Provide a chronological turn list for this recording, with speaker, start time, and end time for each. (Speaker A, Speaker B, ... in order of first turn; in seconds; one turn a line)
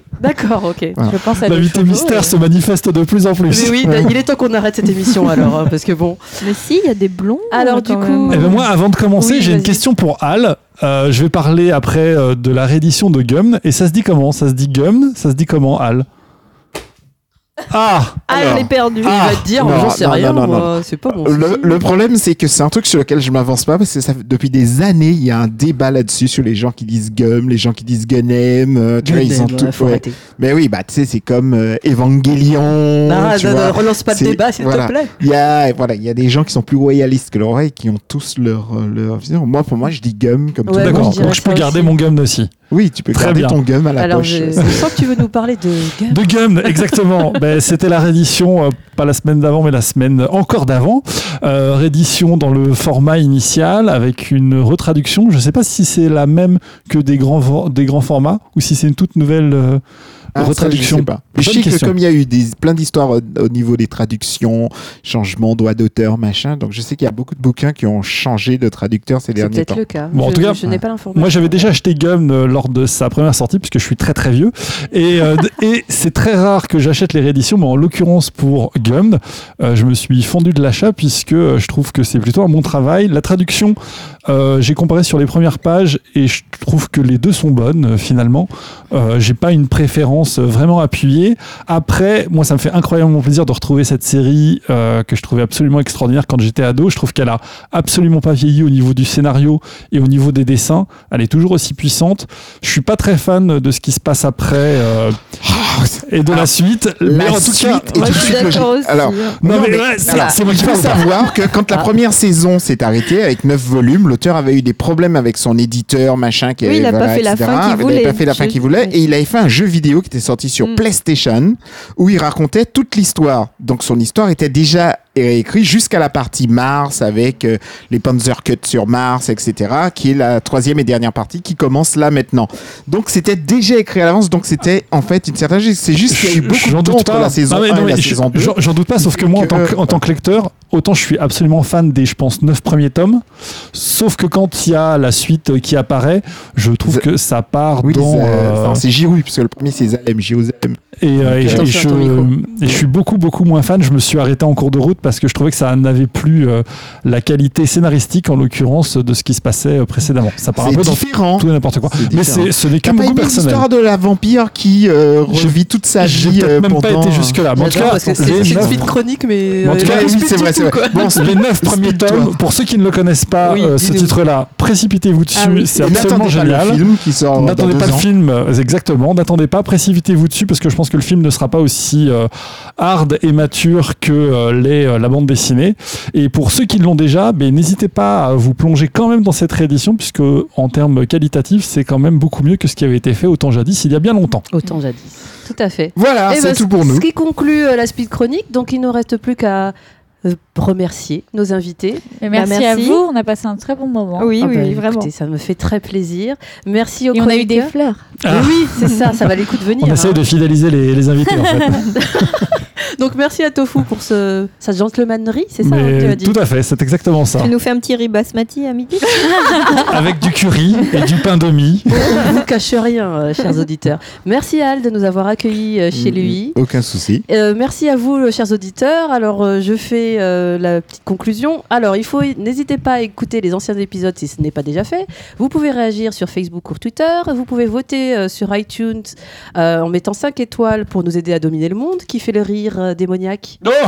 Speaker A: 0.2-2.3
Speaker B: 1.0-1.2
Speaker C: 1.1-2.1
Speaker D: 1.3-4.0
Speaker A: 3.5-6.4
Speaker B: 3.8-4.1
Speaker E: 6.4-8.7
Speaker A: 7.5-8.6
Speaker D: 8.3-16.1
Speaker A: 9.2-9.8
Speaker D: 17.7-18.2
Speaker E: 18.3-19.1
Speaker B: 18.3-41.2
Speaker A: 18.4-21.8
Speaker A: 29.0-30.2
Speaker A: 33.0-35.1
Speaker A: 40.7-41.9
Speaker D: 40.8-42.5
Speaker B: 42.7-44.9
Speaker D: 43.1-43.6
Speaker A: 44.0-46.9
Speaker D: 46.1-59.8
Speaker D: 60.3-61.9
Speaker B: 60.4-69.8
Speaker A: 69.3-71.7
Speaker D: 70.1-83.8
Speaker D: 84.3-105.2
Speaker B: 105.4-106.5
Speaker D: 106.1-108.7
Speaker B: 107.0-140.0
Speaker E: 107.9-109.4
Speaker D: 109.4-111.2
Speaker E: 110.0-110.4
Speaker E: 116.6-119.0
Speaker D: 136.1-148.8
Speaker B: 147.8-151.7
Speaker D: 151.0-163.6
Speaker A: 151.4-152.3
Speaker B: 160.6-168.9
Speaker D: 165.3-168.9
Speaker A: 167.5-171.3
Speaker D: 169.6-170.3
Speaker B: 169.8-172.3
Speaker D: 170.9-176.8
Speaker A: 173.4-174.1
Speaker E: 175.3-176.1
Speaker B: 175.8-178.1
Speaker D: 177.3-194.4
Speaker A: 194.5-202.1
Speaker B: 195.9-197.1
Speaker C: 202.2-204.3
Speaker E: 202.3-203.0
Speaker E: 204.2-205.1
Speaker A: 204.4-207.8
Speaker C: 207.1-208.0
Speaker D: 208.2-208.8
Speaker A: 208.3-210.2
Speaker E: 208.8-209.1
Speaker D: 209.8-212.4
Speaker A: 211.9-216.3
Speaker D: 215.6-217.5
Speaker E: 217.4-219.8
Speaker D: 219.9-222.1
Speaker E: 221.9-222.4
Speaker A: 222.1-226.6
Speaker B: 225.9-227.2
Speaker A: 227.3-243.6